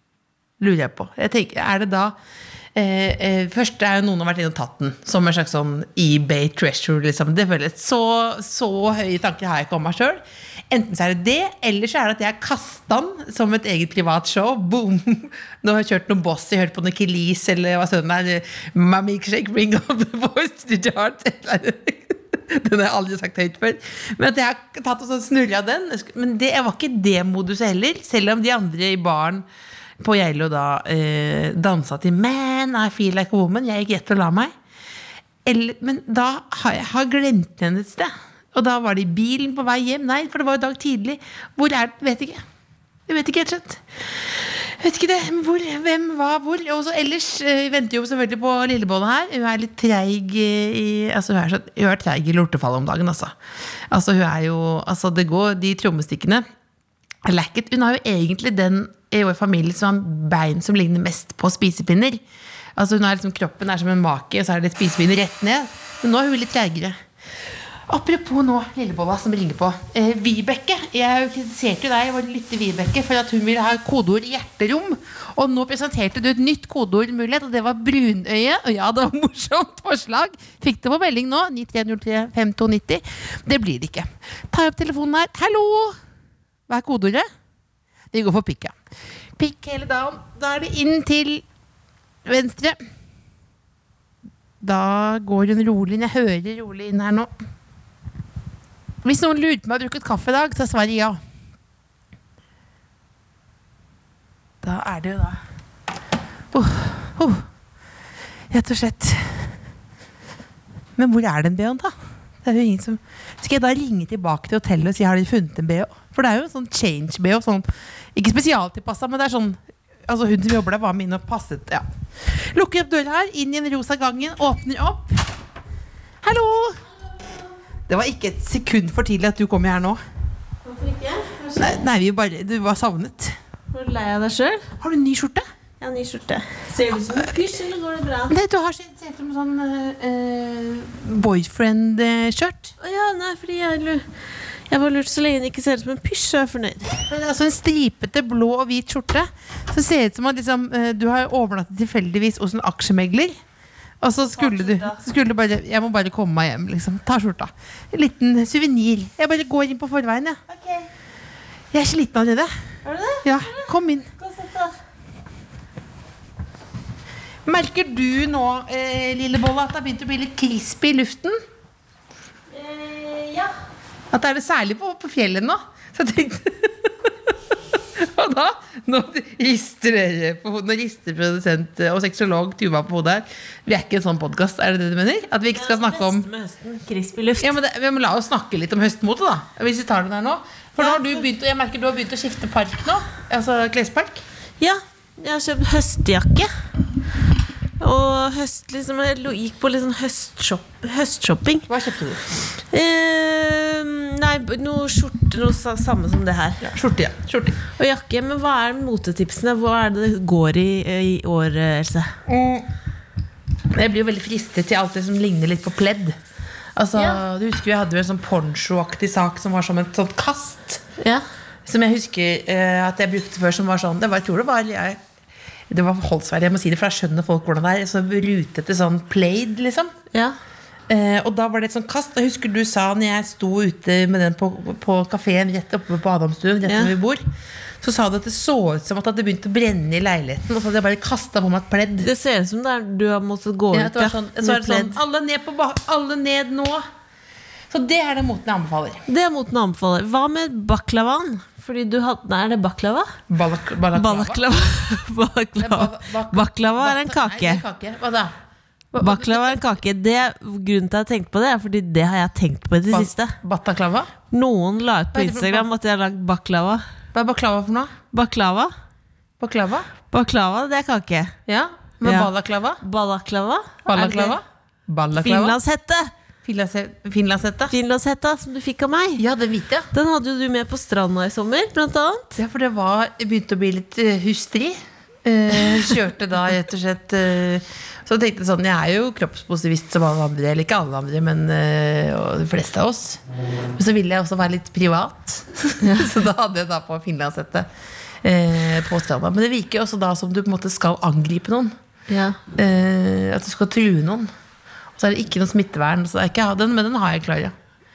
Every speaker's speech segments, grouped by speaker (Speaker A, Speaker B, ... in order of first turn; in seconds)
Speaker A: 0.6-2.1, 2.8-29.4, 30.0-34.5, 35.4-42.4, 43.1-53.3, 53.9-56.4, 57.2-62.2, 62.8-67.0, 67.9-86.0, 86.7-87.2, 88.1-88.8, 89.4-91.4, 92.2-92.8, 94.6-97.3, 99.0-101.2, 104.6-105.4, 106.5-107.4, 108.5-109.5, 111.0-125.2, 126.2-126.8, 127.9-130.0, 131.6-133.4, 134.8-135.4, 138.3-142.7, 147.1-153.4, 154.0-160.4, 161.7-162.5, 163.2-164.1, 167.4-171.4, 174.1-177.1, 177.9-186.3, 187.4-194.2, 201.7-202.2, 206.6-207.6, 212.3-212.7, 213.7-216.2, 216.8-220.8, 221.6-225.0, 225.7-229.9, 230.9-237.2, 237.8-242.1, 243.7-246.8, 247.7-249.1, 253.3-254.4, 255.6-258.3, 258.9-259.6, 262.9-264.1, 265.1-265.6, 267.1-267.9, 269.4-269.9, 271.5-272.8, 273.9-275.6, 276.4-277.7, 279.2-279.9, 282.4-293.2, 293.8-297.7, 298.2-301.7, 302.5-304.3, 304.9-307.5
Speaker B: 130.6-131.8, 133.7-134.7, 135.8-138.4, 142.8-144.0, 144.7-147.0, 154.3-155.0, 160.5-160.9, 162.8-164.8, 172.5-173.5, 185.5-187.6, 190.8-191.1, 194.6-196.5, 197.8-201.7, 202.7-206.7, 207.8-212.2, 216.9-217.2, 221.0-221.2, 236.7-236.9, 242.0-245.0, 249.1-253.2, 253.9-257.6, 259.0-263.4, 264.3-266.8, 268.1-268.7, 270.1-271.3, 272.0-274.4, 275.1-276.1, 277.7-279.2, 279.9-282.4, 295.8-296.1, 302.1-302.4